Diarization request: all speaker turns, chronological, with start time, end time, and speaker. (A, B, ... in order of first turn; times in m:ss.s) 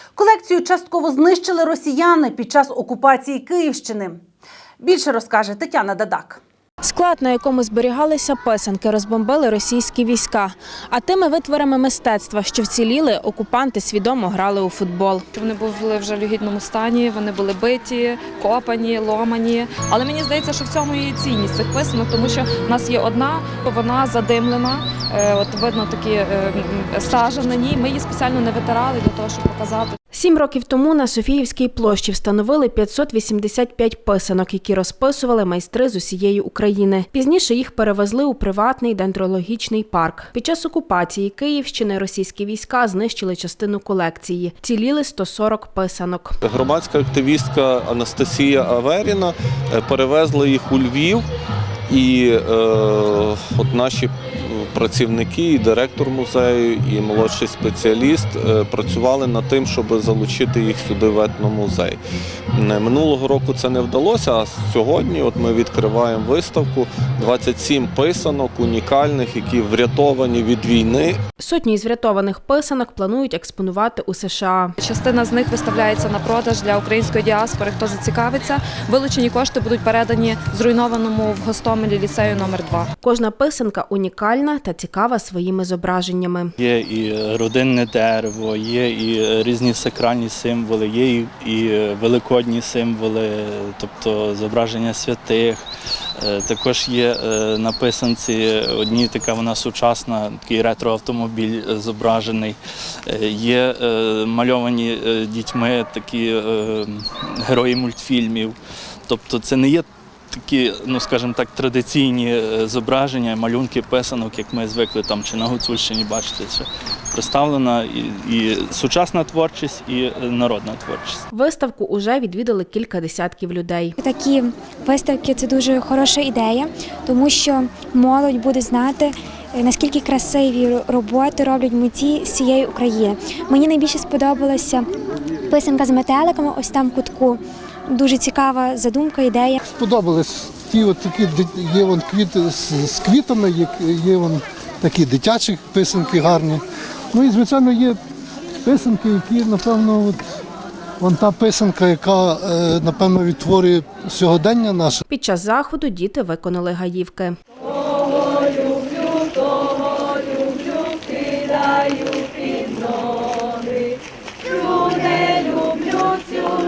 0:00.2-0:04.2 A
0:04.8-0:06.4 A
0:06.8-0:15.2 B
0:15.3-0:29.9 C
0:30.1-0:46.4 B
0:46.4-0:51.2 D
0:51.9-1:02.0 D
1:02.5-1:11.2 D
1:11.4-1:14.7 B
1:14.8-1:22.9 C
1:23.0-1:26.5 B
1:26.6-1:35.6 E
1:36.2-1:48.6 E
1:49.1-2:01.2 E
2:01.3-2:04.0 B
2:04.0-2:14.9 F
2:15.5-2:19.6 F
2:19.6-2:28.0 G
2:28.6-2:30.2 G
2:31.0-2:35.0 G
2:35.1-2:37.4 B